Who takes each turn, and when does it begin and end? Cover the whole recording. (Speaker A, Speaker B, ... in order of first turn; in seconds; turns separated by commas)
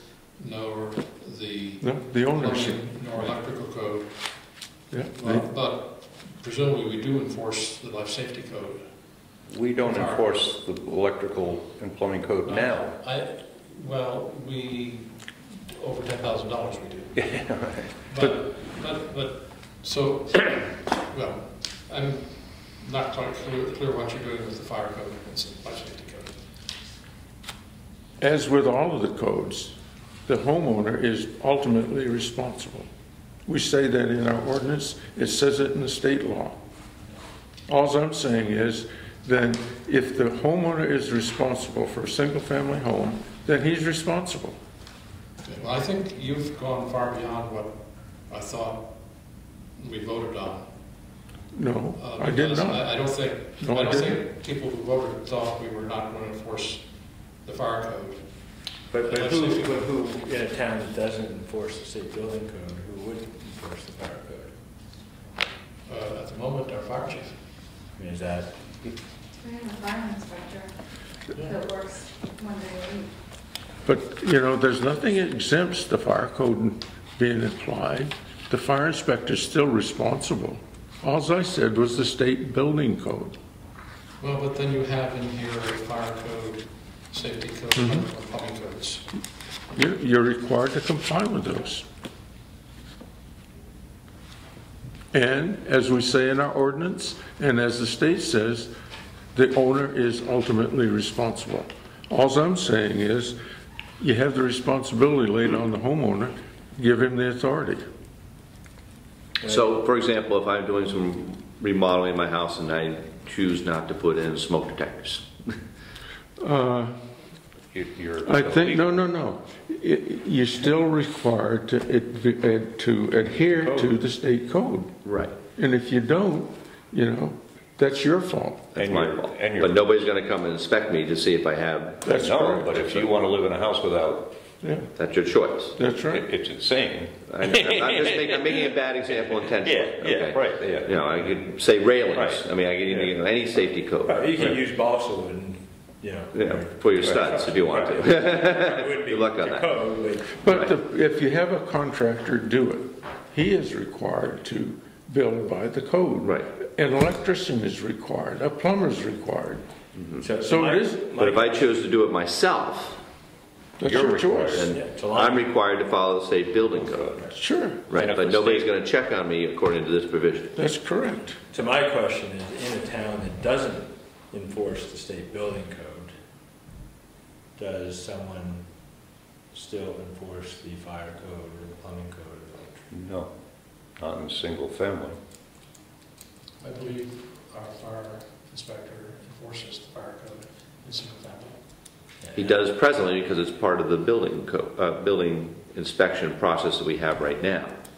Speaker A: 0.4-4.1, Speaker B: 1.8-3.2, Speaker B: 4.9-5.4, Speaker A: 5.1-8.8, Speaker C: 9.5-13.0, Speaker A: 9.8-10.3, Speaker A: 12.4-17.2, Speaker C: 17.1-18.3, Speaker A: 18.1-26.4, Speaker B: 28.2-32.9, Speaker B: 33.5-36.6, Speaker B: 37.7-44.6, Speaker A: 45.4-49.0, Speaker A: 49.8-50.7, Speaker B: 51.5-52.9, Speaker A: 52.0-58.2, Speaker B: 53.6-54.2, Speaker D: 58.9-64.5, Speaker A: 59.0-59.8, Speaker A: 65.8-67.4, Speaker D: 68.0-68.9, Speaker E: 69.4-70.7, Speaker E: 71.4-73.1, Speaker B: 73.8-83.4, Speaker A: 84.2-89.0, Speaker B: 87.8-88.0, Speaker B: 89.7-91.8, Speaker B: 95.1-98.7, Speaker B: 99.3-103.4, Speaker B: 104.0-107.8, Speaker F: 109.4-115.5, Speaker B: 116.4-117.0, Speaker C: 117.7-119.0, Speaker B: 118.2-125.0, Speaker F: 125.0-125.3, Speaker B: 125.5-128.7, Speaker F: 128.7-133.1, Speaker C: 128.8-130.1, Speaker B: 132.0-132.8, Speaker C: 132.1-134.3, Speaker B: 134.6-134.9, Speaker F: 134.9-135.8, Speaker B: 135.8-136.2, Speaker C: 136.1-141.4, Speaker F: 137.3-144.6, Speaker C: 142.0-143.2, Speaker D: 144.0-150.5, Speaker F: 146.3-149.8, Speaker C: 147.0-148.0, Speaker B: 150.4-159.6, Speaker F: 150.4-150.7, Speaker F: 156.2-156.5, Speaker F: 159.9-160.3, Speaker D: 160.2-161.8, Speaker B: 160.4-161.1, Speaker F: 161.2-163.0, Speaker B: 163.8-164.7, Speaker C: 163.8-164.7, Speaker F: 163.9-167.3, Speaker D: 164.6-165.5, Speaker B: 167.3-167.8, Speaker F: 167.9-170.6, Speaker D: 167.9-168.7, Speaker B: 170.6-171.4, Speaker D: 171.5-176.1, Speaker D: 177.6-178.7, Speaker D: 179.5-182.9, Speaker C: 182.9-183.3, Speaker C: 184.0-185.2, Speaker A: 186.6-191.6, Speaker D: 192.2-192.6, Speaker F: 192.3-197.7